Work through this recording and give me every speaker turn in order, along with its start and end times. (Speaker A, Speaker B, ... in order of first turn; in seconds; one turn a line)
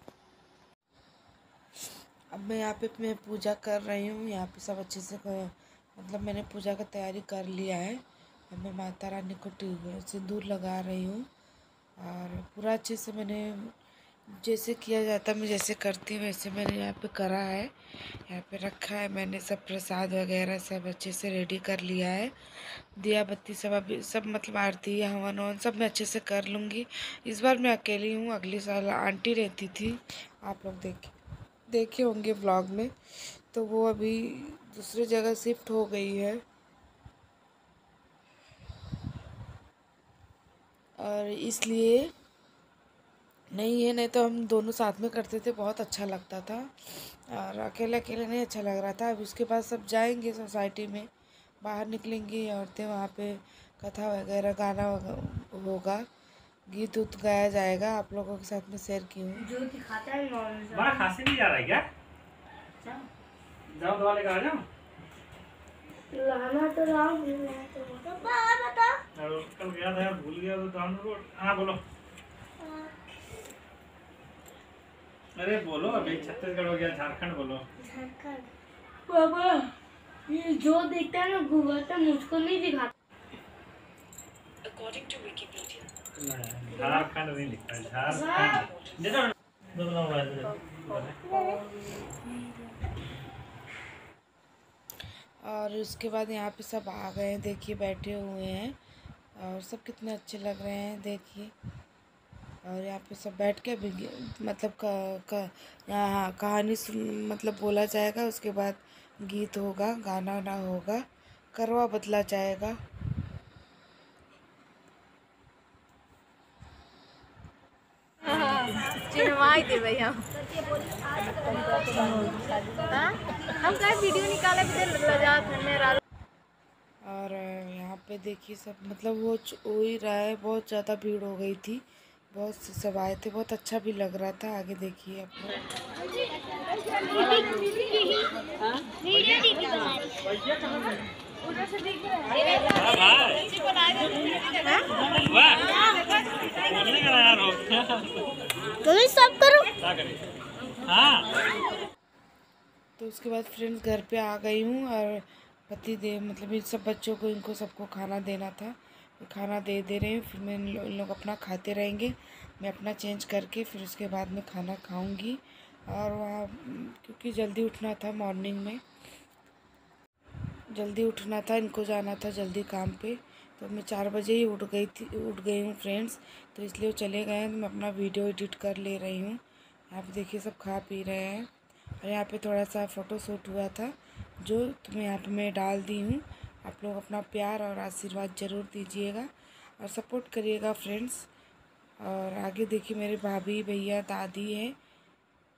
Speaker A: 2.3-11.3
Speaker A: 12.0-13.7
Speaker A: 14.4-22.3
Speaker A: 23.0-31.1
Speaker A: 31.7-32.9
Speaker A: 33.5-36.4
Speaker A: 41.0-42.1
Speaker A: 43.5-51.1
Speaker A: 51.6-56.0
Speaker A: 56.7-59.5
Speaker B: 60.7-61.8
Speaker B: 63.7-64.6
Speaker C: 66.2-69.0
Speaker B: 69.2-71.8
Speaker C: 72.6-73.0
Speaker B: 75.4-77.6
Speaker C: 77.8-78.5
Speaker B: 86.2-91.2
Speaker A: 95.4-98.8
Speaker A: 99.4-101.5
Speaker A: 102.6-112.8
Speaker D: 118.6-120.2
Speaker D: 123.6-125.9
Speaker A: 127.0-135.7
Speaker C: 137.2-138.2
Speaker C: 139.0-140.3
Speaker B: 142.7-143.5
Speaker B: 145.2-145.7
Speaker B: 146.6-148.2
Speaker C: 148.8-149.7
Speaker B: 149.8-150.2
Speaker B: 150.8-151.3
Speaker A: 153.0-168.8
Speaker A: 170.7-181.5
Speaker A: 182.0-191.3
Speaker A: 192.0-194.7